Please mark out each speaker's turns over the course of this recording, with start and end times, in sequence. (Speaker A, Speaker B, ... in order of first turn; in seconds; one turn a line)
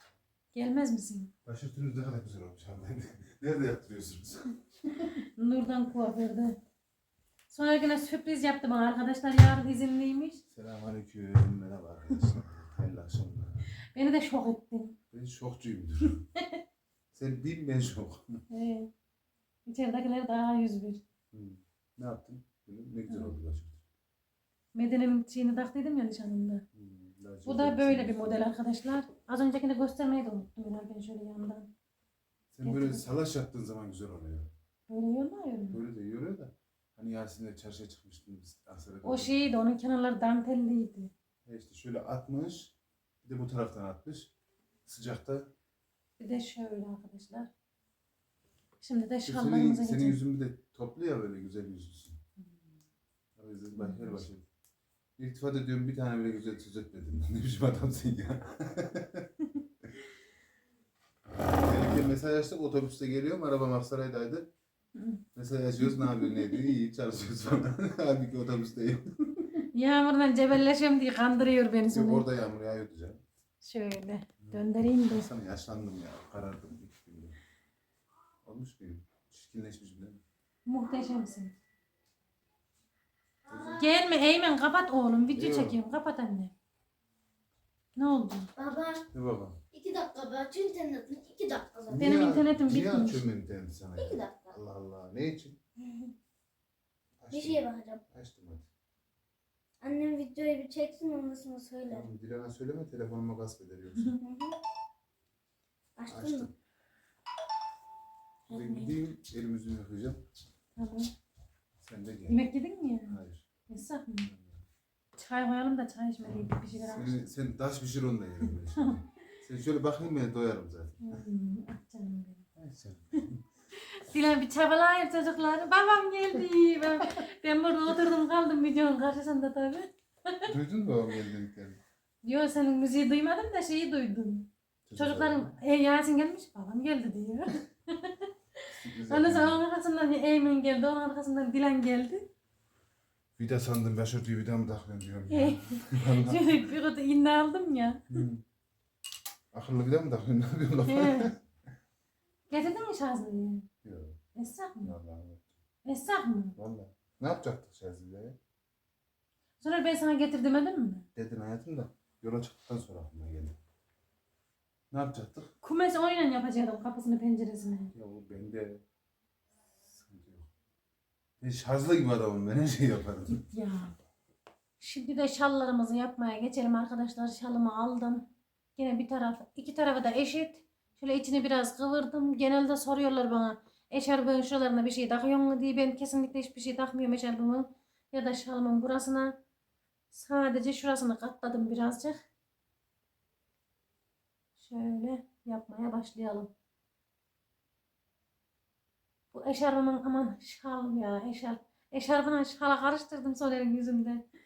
Speaker A: 0.5-1.3
Speaker B: 1.4-5.0
Speaker A: 5.0-6.6
Speaker A: 7.5-10.4
Speaker B: 10.5-13.7
Speaker A: 13.9-14.9
Speaker B: 15.1-16.2
Speaker B: 17.1-18.4
Speaker A: 18.5-18.9
Speaker A: 19.6-21.0
Speaker B: 21.3-23.8
Speaker A: 23.1-23.3
Speaker A: 24.7-26.6
Speaker B: 26.7-28.4
Speaker A: 27.4-31.7
Speaker B: 32.5-34.5
Speaker A: 32.6-33.0
Speaker A: 34.9-35.8
Speaker B: 35.7-39.4
Speaker A: 39.0-41.1
Speaker B: 41.4-44.3
Speaker B: 44.9-45.5
Speaker A: 46.2-47.5
Speaker A: 48.8-50.2
Speaker B: 49.2-52.2
Speaker B: 53.4-54.4
Speaker A: 53.8-54.2
Speaker B: 55.2-59.9
Speaker B: 61.5-64.5
Speaker A: 64.9-65.2
Speaker B: 65.3-69.6
Speaker A: 65.8-66.7
Speaker A: 69.6-72.2
Speaker B: 71.9-73.2
Speaker A: 73.6-75.3
Speaker B: 74.4-77.4
Speaker B: 78.4-80.2
Speaker A: 80.7-81.5
Speaker A: 83.5-86.5
Speaker B: 85.3-85.8
Speaker A: 88.0-88.5
Speaker C: 88.6-89.0
Speaker B: 89.1-89.6
Speaker C: 89.7-92.0
Speaker B: 91.9-95.6
Speaker A: 92.0-93.2
Speaker C: 94.0-94.5
Speaker C: 95.8-96.1
Speaker B: 97.2-98.7
Speaker C: 97.3-98.0
Speaker C: 99.8-102.1
Speaker B: 101.9-104.2
Speaker C: 104.2-104.5
Speaker C: 106.0-106.5
Speaker B: 106.1-106.5
Speaker A: 108.5-109.0
Speaker B: 108.5-110.2
Speaker A: 110.8-111.1
Speaker B: 111.8-112.4
Speaker A: 112.3-113.2
Speaker B: 113.1-113.4
Speaker A: 113.7-114.3
Speaker B: 114.3-114.6
Speaker A: 115.2-117.2
Speaker B: 116.7-121.2
Speaker A: 118.8-119.0
Speaker A: 121.0-122.5
Speaker B: 122.5-123.4
Speaker A: 123.7-130.5
Speaker B: 130.4-131.8
Speaker A: 132.2-142.2
Speaker B: 134.9-135.5
Speaker B: 138.7-139.7
Speaker B: 143.3-146.7
Speaker A: 145.3-148.2
Speaker B: 148.1-148.4
Speaker B: 149.5-151.4
Speaker A: 150.9-151.3
Speaker A: 152.5-153.7
Speaker B: 153.8-154.2
Speaker A: 154.3-154.9
Speaker B: 154.8-155.5
Speaker A: 155.8-156.5
Speaker B: 156.6-158.4
Speaker A: 159.6-161.1
Speaker B: 161.1-163.6
Speaker B: 164.9-165.5
Speaker A: 165.6-167.9
Speaker B: 167.9-168.8
Speaker B: 169.7-170.5
Speaker B: 171.4-173.4
Speaker A: 173.4-173.9
Speaker A: 174.8-189.3
Speaker A: 190.1-192.2
Speaker A: 194.6-196.5
Speaker A: 199.3-204.2